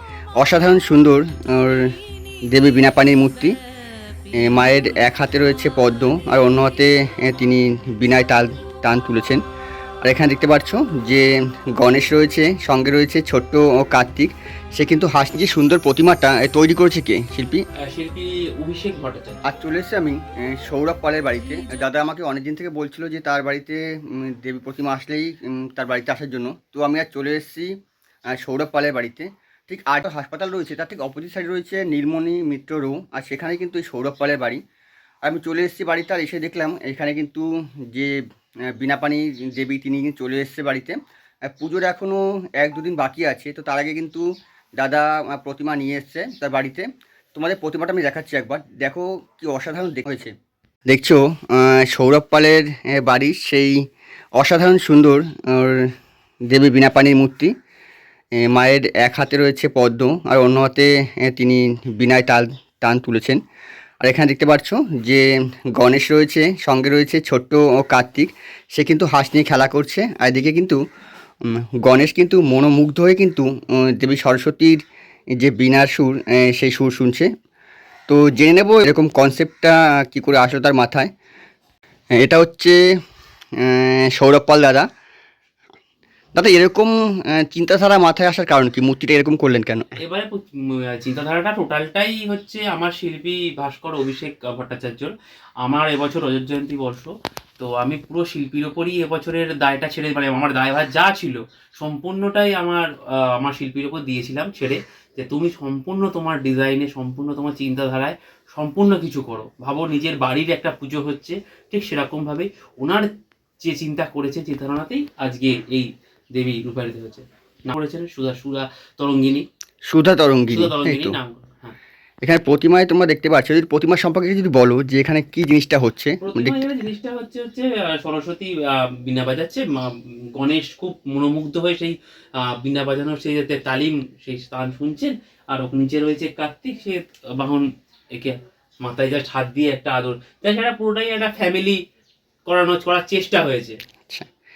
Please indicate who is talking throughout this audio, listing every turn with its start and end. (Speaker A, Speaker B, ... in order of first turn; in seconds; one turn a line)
Speaker A: 0.4-1.9
Speaker A: 2.5-3.5
Speaker A: 4.4-9.4
Speaker A: 10.0-17.6
Speaker B: 17.9-19.4
Speaker A: 19.5-27.7
Speaker A: 28.4-34.6
Speaker A: 35.2-38.1
Speaker A: 38.7-41.0
Speaker A: 41.5-44.2
Speaker A: 44.8-50.3
Speaker A: 50.9-53.7
Speaker A: 54.4-55.9
Speaker A: 56.5-57.5
Speaker A: 58.4-63.4
Speaker A: 64.0-70.8
Speaker A: 71.8-74.8
Speaker A: 75.4-77.3
Speaker A: 78.1-81.1
Speaker A: 82.2-82.8
Speaker A: 83.6-84.9
Speaker A: 86.4-89.9
Speaker B: 90.0-113.1
Speaker B: 113.6-119.4
Speaker A: 119.9-121.2
Speaker B: 120.5-121.8
Speaker A: 122.2-126.6
Speaker B: 126.2-141.8
Speaker B: 142.5-143.8